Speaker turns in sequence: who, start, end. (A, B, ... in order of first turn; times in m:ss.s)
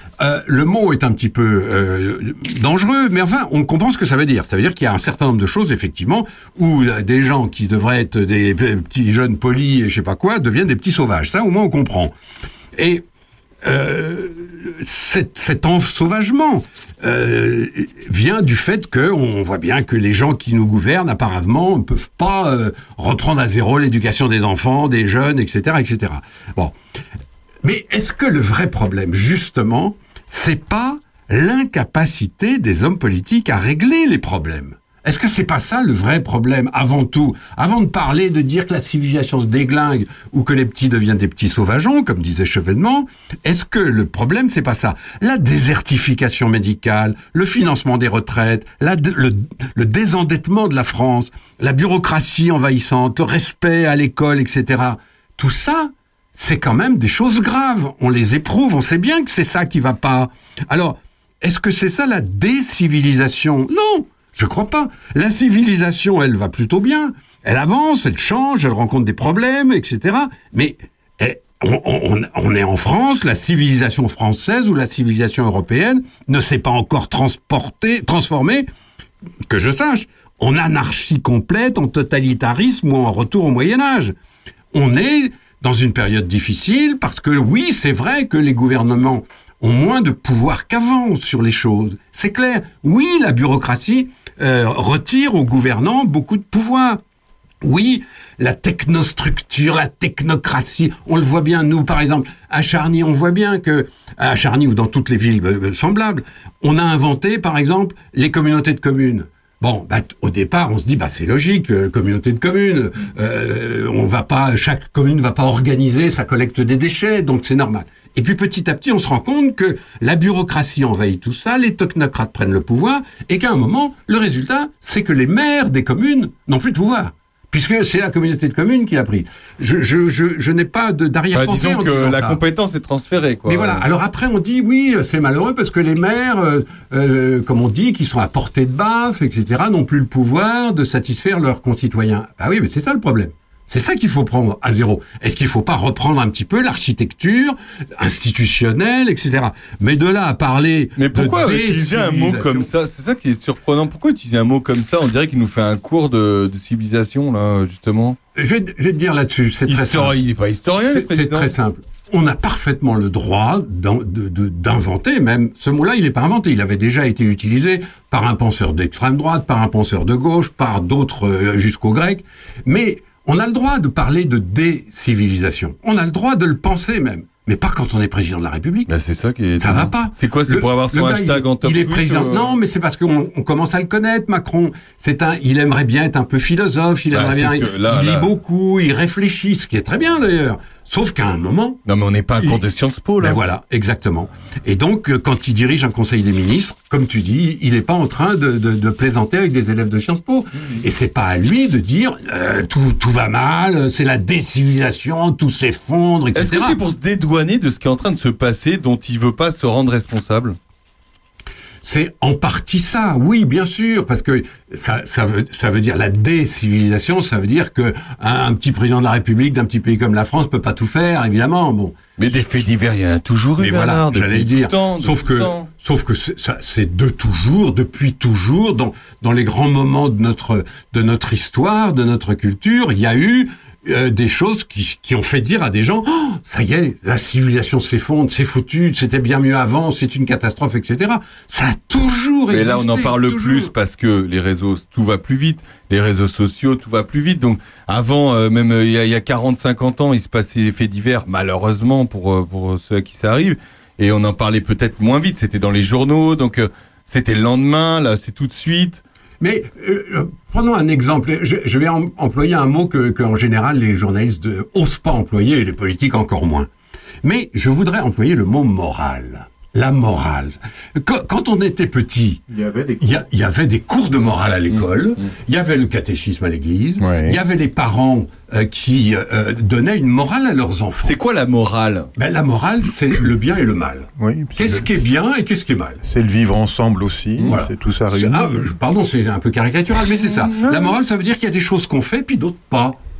0:00.2-0:12.1 A
0:12.8-0:13.0 A
0:13.6-0:26.7 A
0:27.6-1:18.7 A
1:19.5-1:24.1 A
1:24.7-1:37.0 A
1:37.6-2:12.4 A
2:11.3-2:13.8 B
2:13.4-2:32.7 A
2:31.0-2:38.2 B
2:38.3-2:40.2 A
2:39.7-2:41.5 B
2:40.7-2:58.9 A
2:58.9-3:02.6 B
2:59.6-3:11.8 A
3:07.1-3:08.3 B
3:11.8-3:13.4 B
3:13.2-3:26.8 A
3:26.3-3:30.6 B
3:31.8-3:41.9 A
3:42.2-3:45.7 B
3:43.6-4:03.7 A
4:02.5-4:19.0 B
4:19.4-4:26.7 A
4:27.2-4:32.4 A
4:32.5-4:33.2 C
4:33.0-4:41.2 A
4:34.7-4:35.3 B
4:37.0-4:37.4 C
4:41.0-4:42.1 B
4:42.2-4:46.0 A
4:44.2-4:45.0 C
4:46.0-4:48.7 C
4:47.4-4:53.0 A
4:50.0-4:51.0 B